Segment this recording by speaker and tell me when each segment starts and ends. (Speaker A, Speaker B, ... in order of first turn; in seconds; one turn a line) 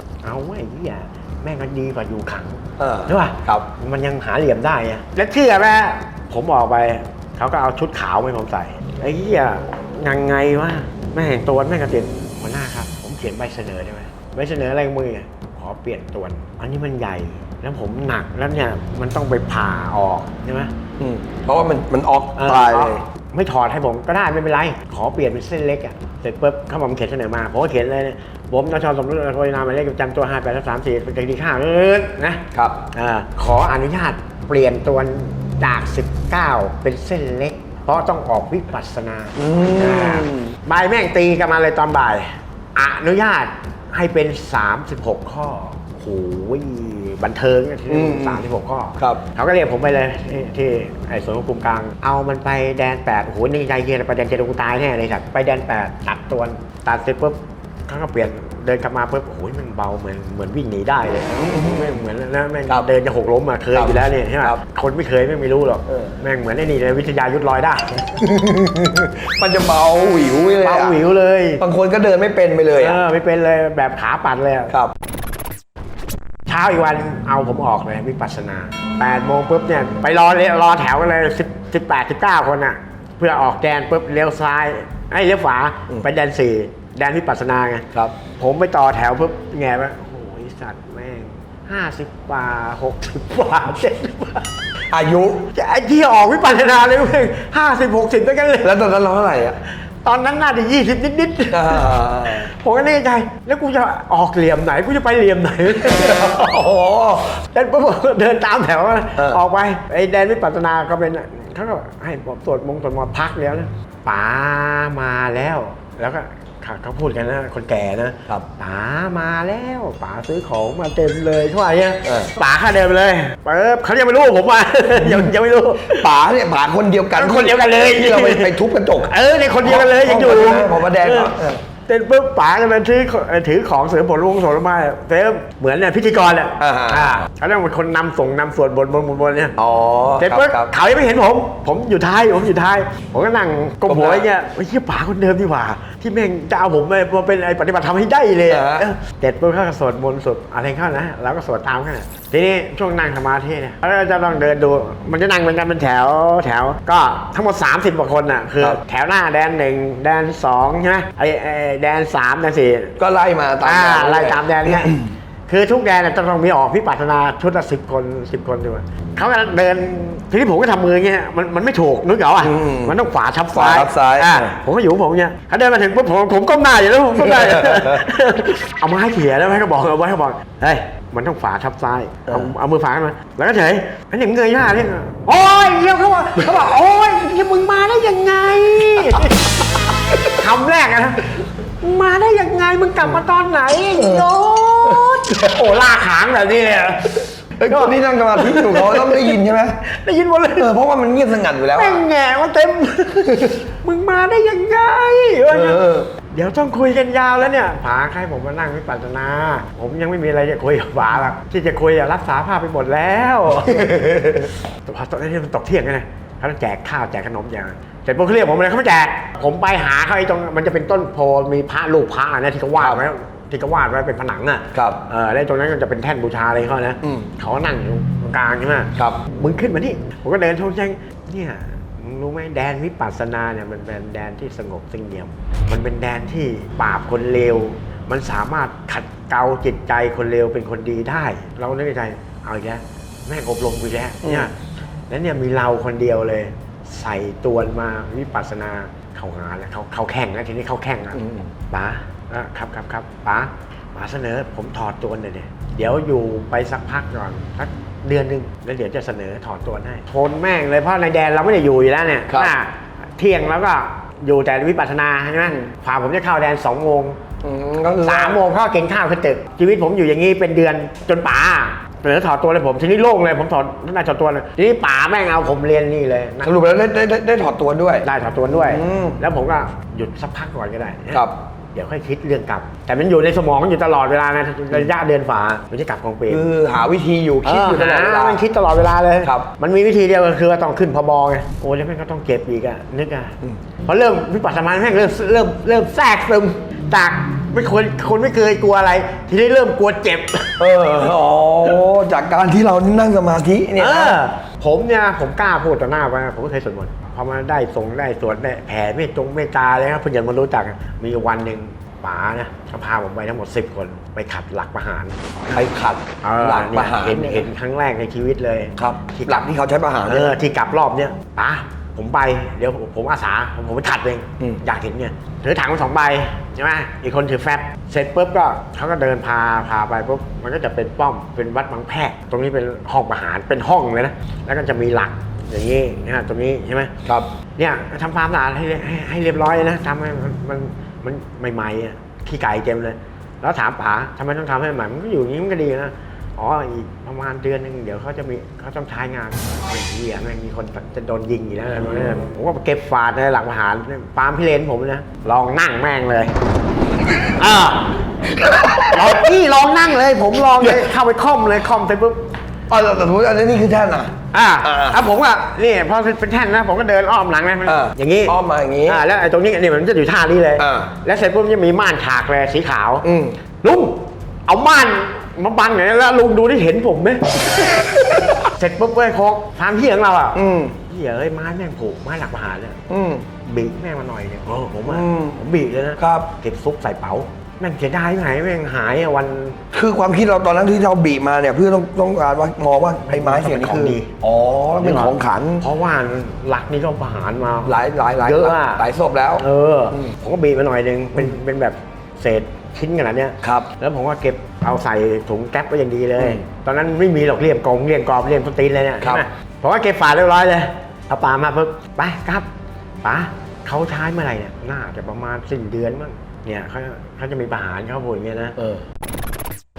Speaker A: 0.2-20.7
Speaker B: 2.8-3.7
Speaker B: 21.0-23.0
Speaker A: 22.4-68.2
Speaker B: 32.5-32.8
Speaker B: 39.4-40.5
Speaker B: 47.9-48.4
Speaker B: 61.4-62.0
Speaker B: 63.7-64.6
Speaker B: 65.9-66.1
Speaker B: 68.2-71.0
Speaker A: 70.6-71.6
Speaker B: 71.6-73.0
Speaker A: 72.8-74.7
Speaker A: 76.5-94.5
Speaker B: 94.9-95.5
Speaker A: 95.5-98.8
Speaker B: 98.6-99.6
Speaker A: 100.0-106.3
Speaker B: 101.5-102.5
Speaker B: 105.8-107.3
Speaker A: 107.4-126.1
Speaker B: 109.2-109.4
Speaker B: 122.0-122.3
Speaker B: 125.0-125.3
Speaker B: 125.9-131.6
Speaker A: 127.1-131.3
Speaker A: 131.9-139.6
Speaker B: 136.6-137.2
Speaker B: 139.6-140.7
Speaker A: 140.2-163.0
Speaker B: 143.9-144.3
Speaker B: 148.5-148.8
Speaker B: 163.0-165.1
Speaker A: 163.6-164.9
Speaker A: 165.5-189.3
Speaker B: 172.4-173.0
Speaker B: 173.5-174.4
Speaker B: 177.2-178.0
Speaker A: 190.3-200.7
Speaker B: 194.0-194.3
Speaker B: 194.8-195.6
Speaker B: 197.6-199.8
Speaker B: 200.6-202.0
Speaker A: 201.8-244.6
Speaker B: 205.5-206.1
Speaker B: 213.8-214.5
Speaker B: 224.7-225.0
Speaker B: 227.0-227.3
Speaker B: 244.2-244.5
Speaker A: 245.1-267.2
Speaker B: 251.1-251.5
Speaker B: 267.4-268.4
Speaker A: 268.0-276.5
Speaker B: 276.4-279.2
Speaker A: 278.0-286.4
Speaker B: 286.3-288.4
Speaker A: 287.4-300.6
Speaker B: 289.2-289.5
Speaker B: 300.6-304.2
Speaker A: 303.8-315.3
Speaker B: 315.5-317.5
Speaker A: 316.2-319.5
Speaker B: 318.8-320.4
Speaker A: 320.0-336.9
Speaker A: 337.6-356.4
Speaker A: 357.3-357.9
Speaker B: 358.3-359.3
Speaker A: 358.8-362.3
Speaker B: 360.6-360.9
Speaker B: 362.7-365.0
Speaker A: 364.3-373.1
Speaker B: 367.6-369.0
Speaker B: 370.6-370.9
Speaker B: 373.0-373.4
Speaker A: 373.6-377.6
Speaker A: 378.4-382.8
Speaker B: 380.3-380.8
Speaker B: 382.9-383.2
Speaker A: 383.4-389.6
Speaker B: 384.9-385.4
Speaker B: 386.0-386.3
Speaker B: 389.7-395.6
Speaker A: 393.1-394.1
Speaker A: 394.8-398.9
Speaker B: 397.6-400.1
Speaker A: 399.4-412.5
Speaker B: 403.4-403.7
Speaker A: 413.0-418.6
Speaker B: 418.6-418.8